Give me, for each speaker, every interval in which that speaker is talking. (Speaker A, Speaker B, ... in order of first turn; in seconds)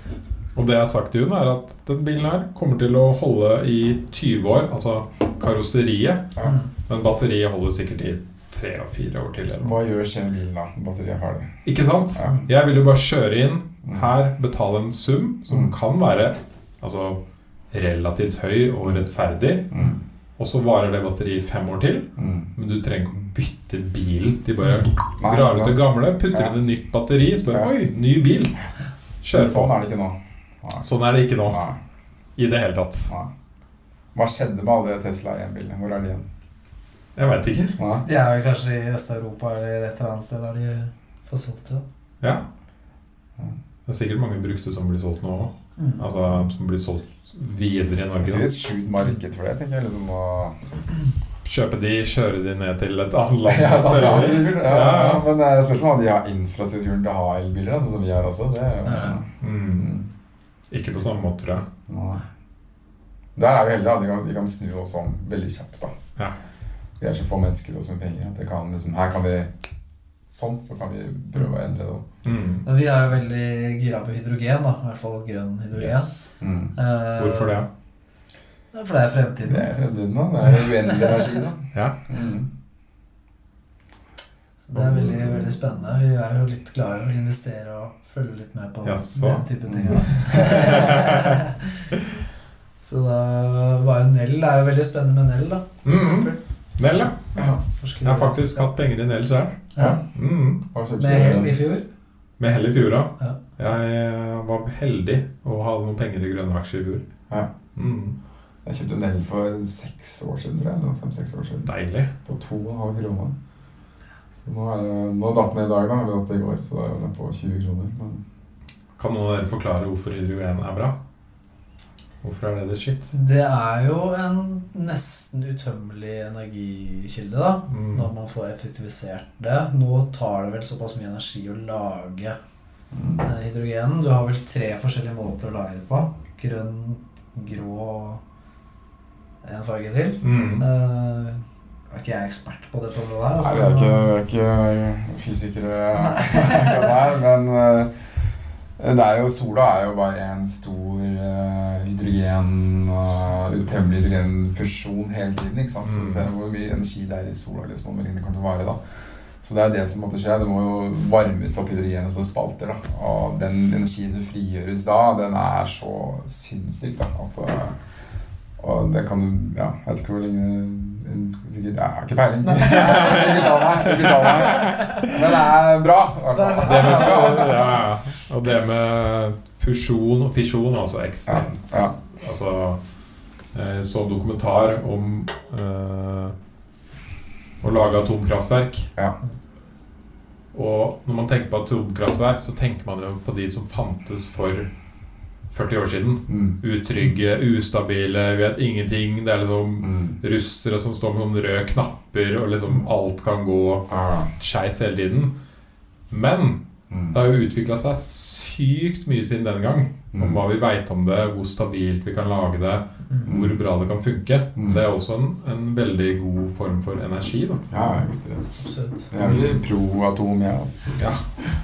Speaker A: 0.6-9.8, 11.7-19.8, 20.4-28.6, 29.2-29.7, 30.8-31.6, 32.4-33.1, 37.2-37.8, 43.9-48.5, 51.4-55.3, 59.4-60.0, 60.7-61.7, 72.2-72.7, 75.8-76.3, 77.2-77.7, 88.8-91.4, 95.8-97.2, 98.0-100.6, 102.4-107.0, 107.8-108.2, 111.7-112.1, 119.0-121.0, 122.2-123.1, 127.7-128.1, 140.2-140.7, 155.8-156.3, 172.6-175.2, 176.6-182.8, 183.5-186.4, 187.6-188.9, 190.5-194.7, 195.5-205.3, 206.1-206.6, 207.1-217.8, 219.2-219.6, 221.0-221.2
Speaker B: 9.6-11.6, 12.2-12.4, 13.8-14.1, 19.7-20.0, 22.2-22.5, 25.2-26.5, 29.3-30.9, 31.4-31.8, 34.1-36.3, 37.8-38.0, 48.2-50.6, 53.5-60.1, 61.9-62.2, 63.4-66.0, 67.0-69.5, 70.3-72.1, 76.4-76.7, 79.5-82.5, 84.7-85.5, 89.7-90.7, 100.7-101.6, 108.7-111.7, 112.2-113.3, 114.4-118.2, 132.9-133.3, 143.4-147.9, 148.8-158.8, 159.4-167.8, 168.6-177.8, 181.3-181.9, 196.3-196.6, 199.8-200.2, 203.9-204.3, 206.9-207.2, 213.2-213.6, 214.6-214.8, 217.7-218.5, 219.1-221.2
Speaker C: 38.0-41.8, 45.8-46.0, 58.9-59.2, 72.7-76.2, 76.8-77.6, 78.7-79.8, 80.6-81.5, 84.7-91.9, 92.8-96.4, 97.3-98.7, 99.8-100.0, 101.0-101.9, 123.1-132.4, 133.2-138.2, 139.4-141.4, 141.9-144.1, 146.2-146.6, 176.3-177.8, 218.6-219.1